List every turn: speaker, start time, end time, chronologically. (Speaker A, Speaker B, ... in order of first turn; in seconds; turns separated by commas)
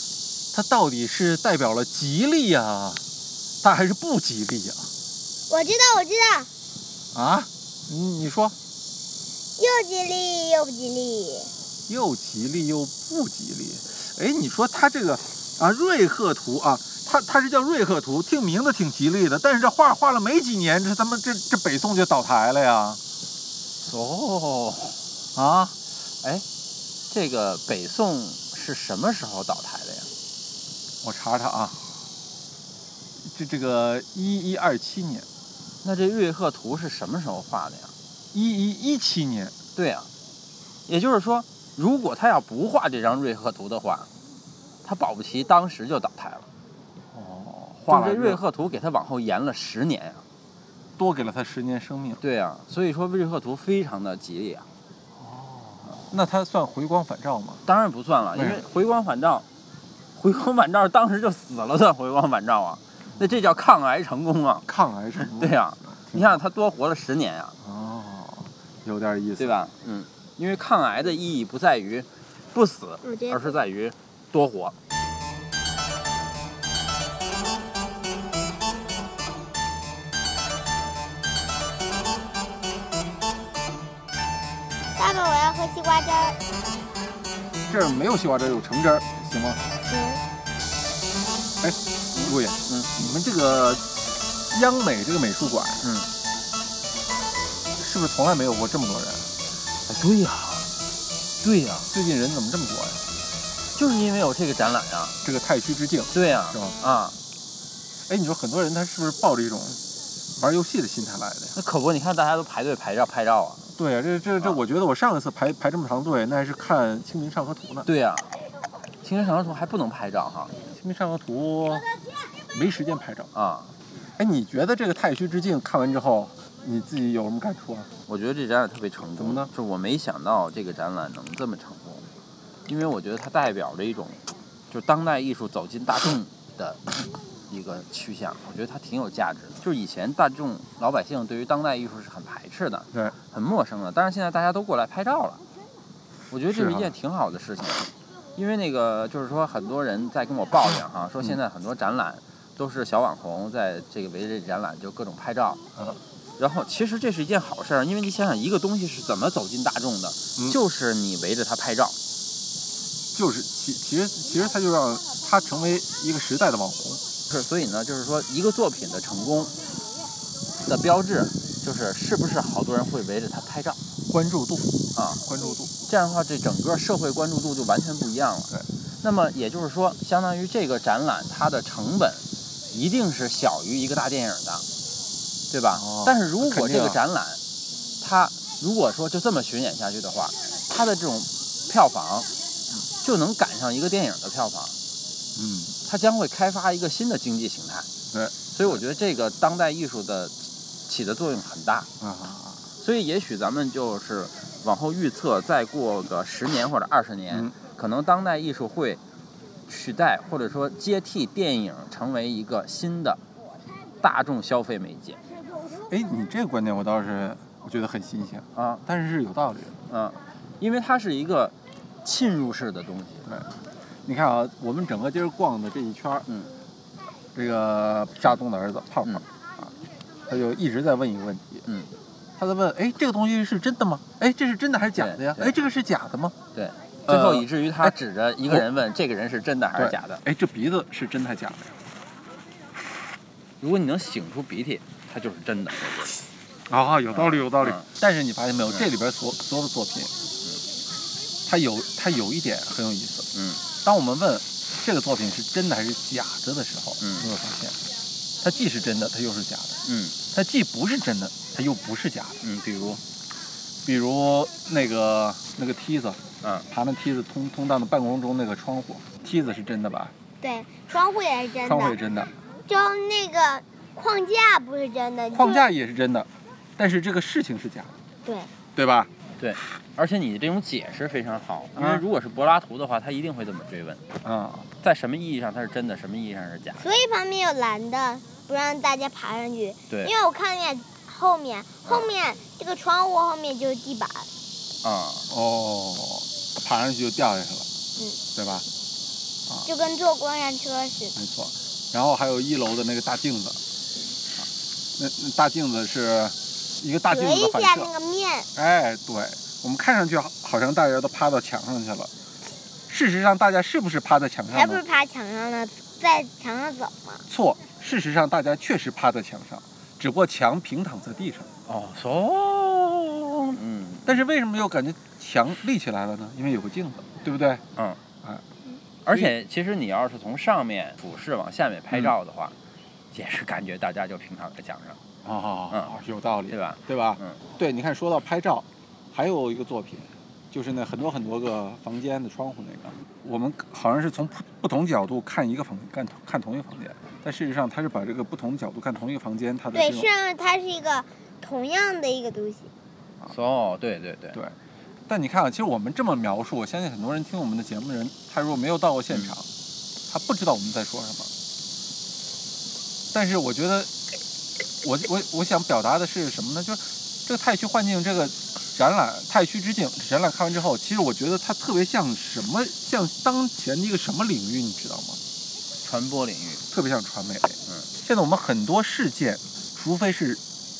Speaker A: 0.5-3.0, Speaker A: 3.6-4.9, Speaker B: 5.5-6.5, Speaker A: 7.1-8.6, Speaker B: 9.6-11.5, Speaker A: 11.9-23.0, Speaker C: 23.8-25.0, Speaker A: 25.3-25.8, Speaker C: 27.1-30.1, Speaker A: 31.0-31.8, Speaker A: 33.2-35.3, Speaker C: 35.8-37.9, Speaker A: 38.3-39.5, Speaker C: 39.8-40.1, Speaker C: 40.9-44.1, Speaker C: 44.8-46.5, Speaker A: 47.1-48.4, Speaker C: 47.9-50.2, Speaker A: 51.0-52.2, Speaker C: 52.2-54.7, Speaker A: 55.1-57.6, Speaker C: 57.6-59.4, Speaker A: 58.3-58.6, Speaker C: 60.1-64.7, Speaker A: 64.7-66.4, Speaker C: 65.2-67.5, Speaker A: 67.6-69.7, Speaker C: 69.4-74.7, Speaker B: 73.0-73.6, Speaker B: 85.0-86.4, Speaker A: 87.7-89.6, Speaker B: 89.8-90.2, Speaker A: 91.6-93.9, Speaker A: 94.5-95.9, Speaker C: 95.8-96.1, Speaker A: 97.8-99.3, Speaker C: 99.9-100.7, Speaker C: 101.4-101.9, Speaker A: 101.9-103.0, Speaker C: 103.7-105.2, Speaker A: 105.2-106.8, Speaker C: 106.1-107.2, Speaker A: 108.1-109.8, Speaker A: 110.4-111.5, Speaker C: 111.5-113.6, Speaker A: 113.8-117.9, Speaker C: 117.8-118.3, Speaker C: 119.0-120.5, Speaker A: 120.7-121.9, Speaker A: 122.5-123.3, Speaker C: 123.3-123.7, Speaker A: 124.2-127.9, Speaker C: 128.1-132.0, Speaker A: 129.2-129.5, Speaker C: 132.7-145.4, Speaker C: 146.3-155.6, Speaker A: 146.5-146.9, Speaker C: 156.4-162.0, Speaker A: 163.1-167.0, Speaker C: 167.3-169.6, Speaker C: 170.6-173.8, Speaker A: 174.1-175.7, Speaker C: 174.9-175.2, Speaker C: 175.8-178.5, Speaker C: 179.0-184.7, Speaker C: 185.5-187.4, Speaker A: 185.7-187.0, Speaker C: 188.0-192.3, Speaker C: 193.0-194.7, Speaker A: 195.3-195.8, Speaker C: 195.8-197.9, Speaker A: 198.1-198.8, Speaker C: 198.5-200.3, Speaker C: 200.9-201.9, Speaker A: 202.0-202.7, Speaker C: 202.8-209.0, Speaker A: 207.3-207.5, Speaker C: 209.7-213.2, Speaker C: 214.0-215.2, Speaker A: 215.8-219.8, Speaker C: 218.5-218.8, Speaker C: 219.9-223.3, Speaker A: 224.0-226.3, Speaker C: 226.3-226.5, Speaker A: 227.3-229.7, Speaker A: 230.3-231.7, Speaker C: 231.7-231.9, Speaker A: 232.4-236.3, Speaker C: 234.9-235.6, Speaker C: 236.5-240.2, Speaker A: 237.1-237.9, Speaker A: 239.8-241.7, Speaker C: 243.6-246.2, Speaker A: 246.7-250.1, Speaker C: 247.1-247.9, Speaker A: 251.5-253.3, Speaker C: 253.3-253.6, Speaker A: 253.8-257.8, Speaker C: 257.0-257.3, Speaker A: 258.4-259.8, Speaker C: 259.8-260.2, Speaker A: 260.3-262.4, Speaker C: 262.4-263.0, Speaker A: 263.8-270.1, Speaker C: 266.4-266.7, Speaker B: 270.4-272.0, Speaker A: 271.6-272.3, Speaker B: 272.6-275.6, Speaker A: 275.3-277.9, Speaker B: 278.2-278.5, Speaker A: 278.7-279.1, Speaker C: 279.4-284.0, Speaker A: 281.8-282.0, Speaker A: 284.2-284.7, Speaker C: 284.8-286.8, Speaker B: 286.8-294.3, Speaker C: 291.8-292.1, Speaker C: 294.8-295.3, Speaker A: 295.3-297.7, Speaker A: 298.3-298.6, Speaker B: 299.6-301.1, Speaker A: 301.1-303.6, Speaker A: 304.4-307.9, Speaker B: 307.1-308.5, Speaker A: 308.5-312.1, Speaker A: 312.9-314.8, Speaker B: 314.5-317.2, Speaker A: 317.3-321.5, Speaker C: 321.7-324.2, Speaker A: 324.0-327.6, Speaker C: 327.8-328.0, Speaker C: 329.0-332.5, Speaker A: 329.1-329.3, Speaker C: 333.1-335.0, Speaker A: 335.2-350.1, Speaker C: 336.5-337.4, Speaker B: 349.7-352.7, Speaker C: 353.3-354.4, Speaker A: 355.1-359.5, Speaker A: 360.1-361.3, Speaker A: 363.1-363.9, Speaker A: 364.8-375.2, Speaker C: 375.8-376.6, Speaker A: 376.7-380.4